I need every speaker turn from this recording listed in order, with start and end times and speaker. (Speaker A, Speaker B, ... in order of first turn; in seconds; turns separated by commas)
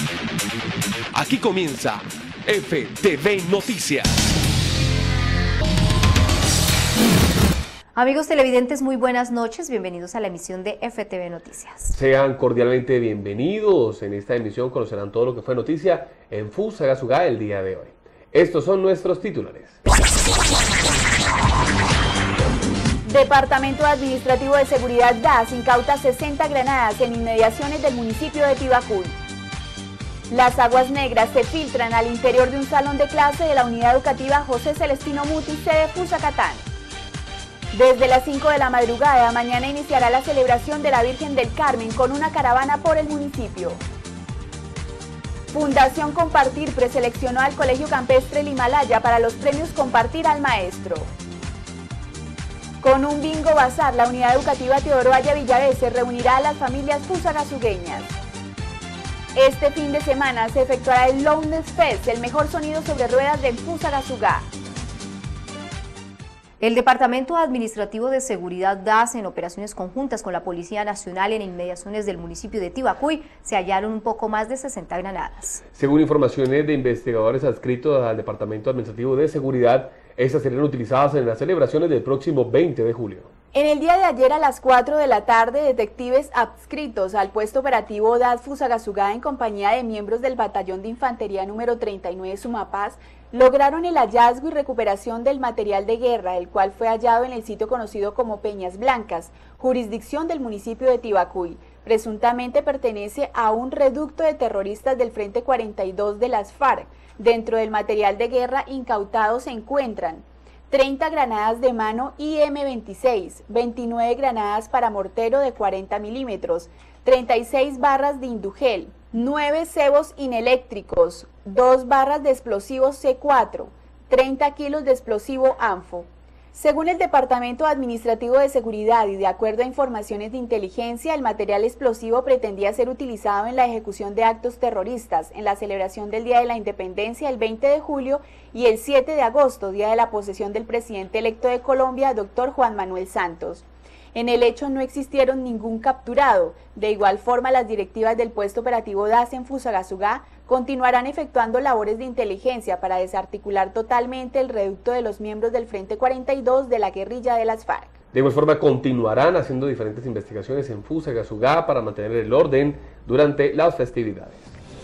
Speaker A: 1.1-4.1, Speaker B: 7.9-11.9, Speaker A: 11.9-19.8, Speaker C: 23.0-29.2, Speaker C: 30.3-36.6, Speaker C: 37.7-43.8, Speaker C: 45.5-51.1, Speaker C: 52.8-58.1, Speaker C: 59.3-64.5, Speaker B: 66.6-75.6, Speaker A: 75.7-83.3, Speaker C: 83.5-157.9, Speaker A: 158.1-164.5